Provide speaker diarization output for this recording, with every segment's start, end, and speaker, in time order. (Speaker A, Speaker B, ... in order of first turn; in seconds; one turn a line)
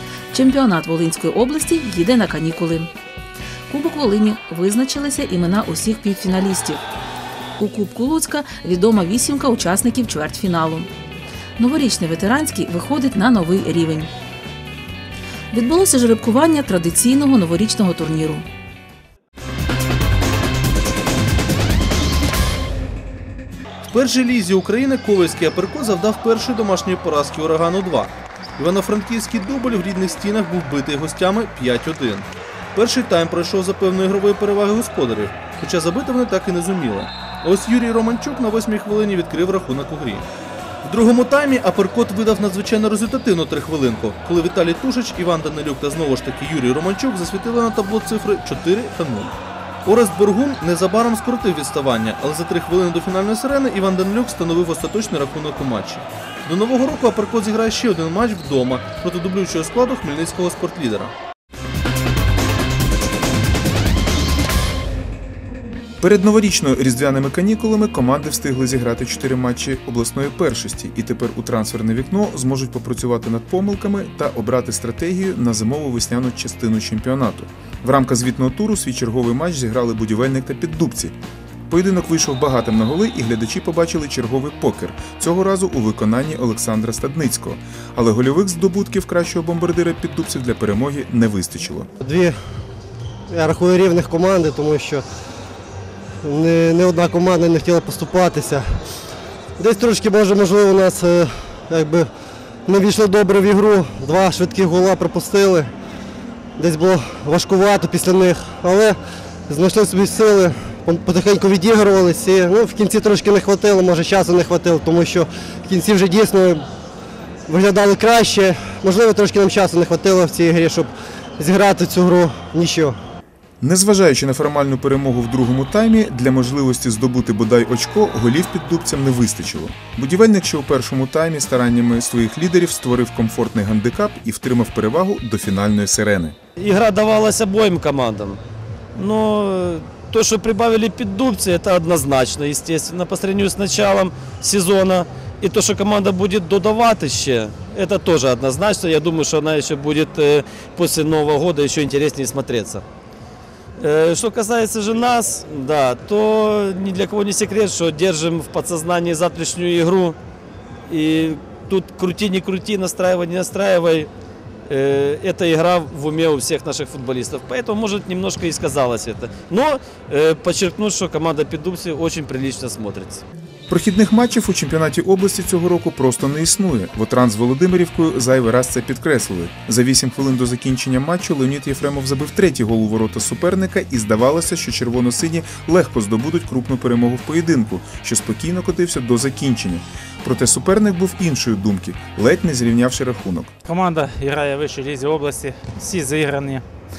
Speaker A: 0.3-2.9
Speaker A: 3.7-6.8
Speaker A: 7.6-10.9
Speaker A: 11.6-14.1
Speaker A: 15.5-18.4
Speaker B: 23.9-40.3
Speaker B: 40.9-61.1
Speaker C: 66.0-81.2
Speaker C: 81.7-91.9
Speaker D: 92.0-92.3
Speaker D: 93.3-95.0
Speaker D: 96.2-98.8
Speaker D: 99.6-102.1
Speaker D: 102.7-105.7
Speaker D: 106.6-109.0
Speaker D: 109.5-116.7
Speaker D: 117.5-123.0
Speaker C: 123.6-136.4
Speaker E: 136.6-138.4
Speaker E: 138.9-152.8
Speaker E: 153.8-160.2
Speaker E: 160.9-164.1
Speaker E: 164.7-173.2
Speaker C: 173.7-193.5
Speaker F: 193.7-196.6